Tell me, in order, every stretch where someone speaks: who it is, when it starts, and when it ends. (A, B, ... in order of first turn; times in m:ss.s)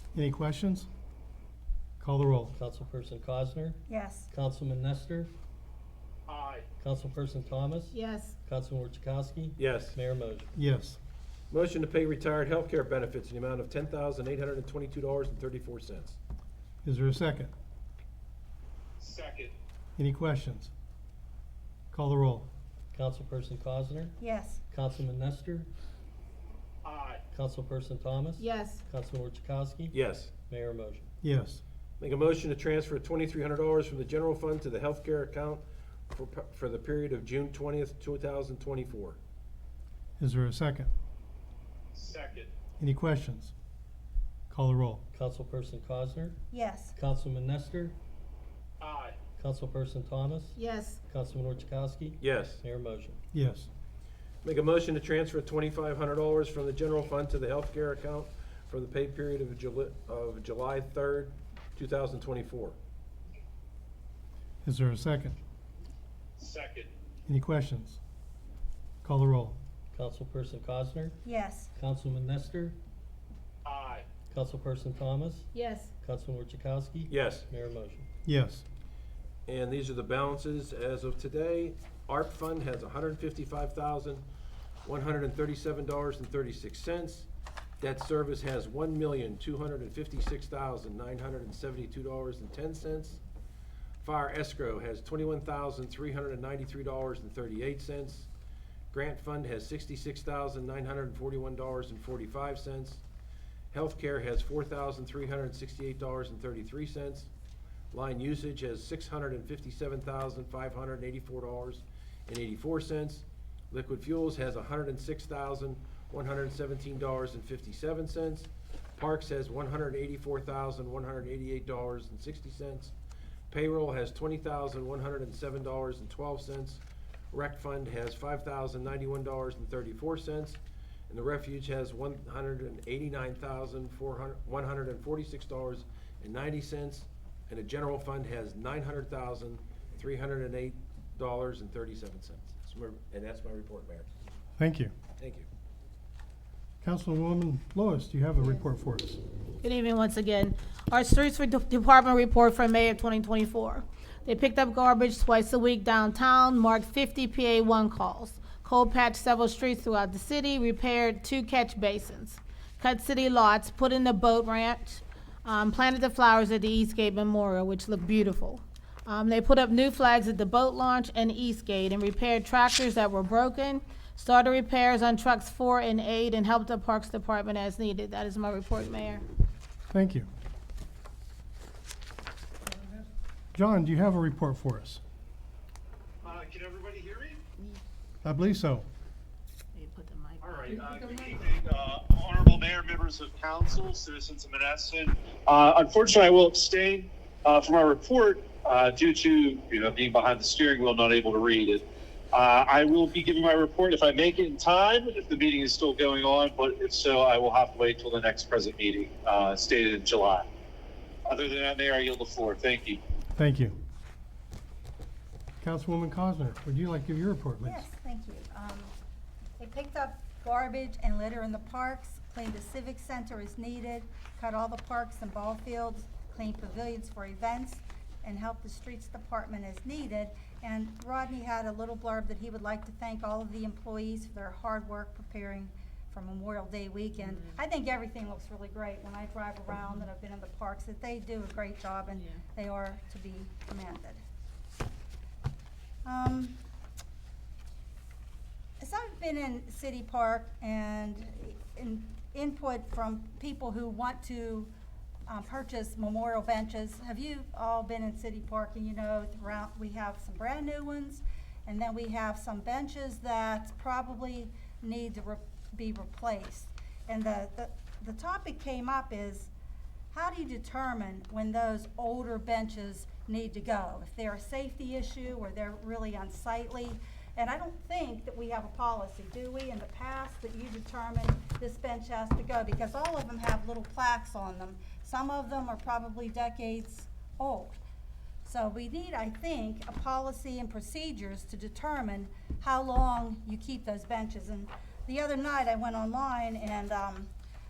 0:00.1-0:00.9 A
0:02.0-0:02.5 A
0:02.5-0:03.8 B
0:03.9-0:04.3 C
0:04.3-0:05.3 B
0:06.3-0:06.6 D
0:06.8-0:10.5 B
0:07.9-0:08.4 E
0:09.6-0:10.0 F
0:10.6-0:11.0 A
0:11.5-0:16.2 F
0:16.8-0:17.5 A
0:19.0-0:19.5 D
0:20.0-0:20.7 A
0:21.9-0:22.5 A
0:22.9-0:24.2 B
0:24.2-0:24.6 C
0:24.7-0:25.7 B
0:26.8-0:27.2 D
0:27.3-0:31.1 B
0:28.4-0:28.8 E
0:29.9-0:30.3 F
0:31.2-0:31.6 A
0:32.0-0:39.2 F
0:40.2-0:40.9 A
0:41.9-0:42.5 D
0:42.8-0:43.5 A
0:44.5-0:45.0 A
0:45.1-0:46.4 B
0:46.5-0:47.0 C
0:47.0-0:48.0 B
0:48.8-0:49.2 D
0:49.4-0:50.6 B
0:50.6-0:51.0 E
0:51.1-0:53.2 B
0:52.2-0:52.6 F
0:53.3-0:53.7 A
0:54.4-1:02.8 F
1:04.6-1:05.4 A
1:06.4-1:06.9 D
1:07.3-1:08.0 A
1:09.0-1:09.6 A
1:09.9-1:11.2 B
1:11.2-1:11.7 C
1:11.8-1:12.8 B
1:13.6-1:14.1 D
1:14.3-1:15.5 B
1:15.5-1:15.9 E
1:16.0-1:18.1 B
1:17.1-1:17.5 F
1:18.2-1:18.6 A
1:19.5-1:24.2 F
1:24.8-1:27.3 F
1:27.8-1:33.2 F
1:34.0-1:38.3 F
1:38.9-1:43.0 F
1:43.7-1:47.3 F
1:47.9-2:02.9 F
2:03.5-2:06.8 F
2:07.3-2:24.1 F
2:24.6-2:24.9 A
2:25.2-2:25.5 F
2:26.8-2:29.2 A
2:29.6-2:59.2 E
2:59.9-3:00.3 A
3:03.5-3:05.0 A
3:06.2-3:07.4 D
3:08.2-3:08.9 A
3:09.7-3:10.9 E
3:10.4-3:30.5 D
3:31.3-3:33.0 D
3:33.4-3:33.8 A
3:35.6-3:37.9 A
3:37.6-3:38.9 C
3:39.6-4:04.2 C
4:06.0-4:06.6 C
4:08.8-4:14.7 C
4:15.3-4:29.5 C
4:30.1-4:47.8 C
4:48.4-4:57.3 C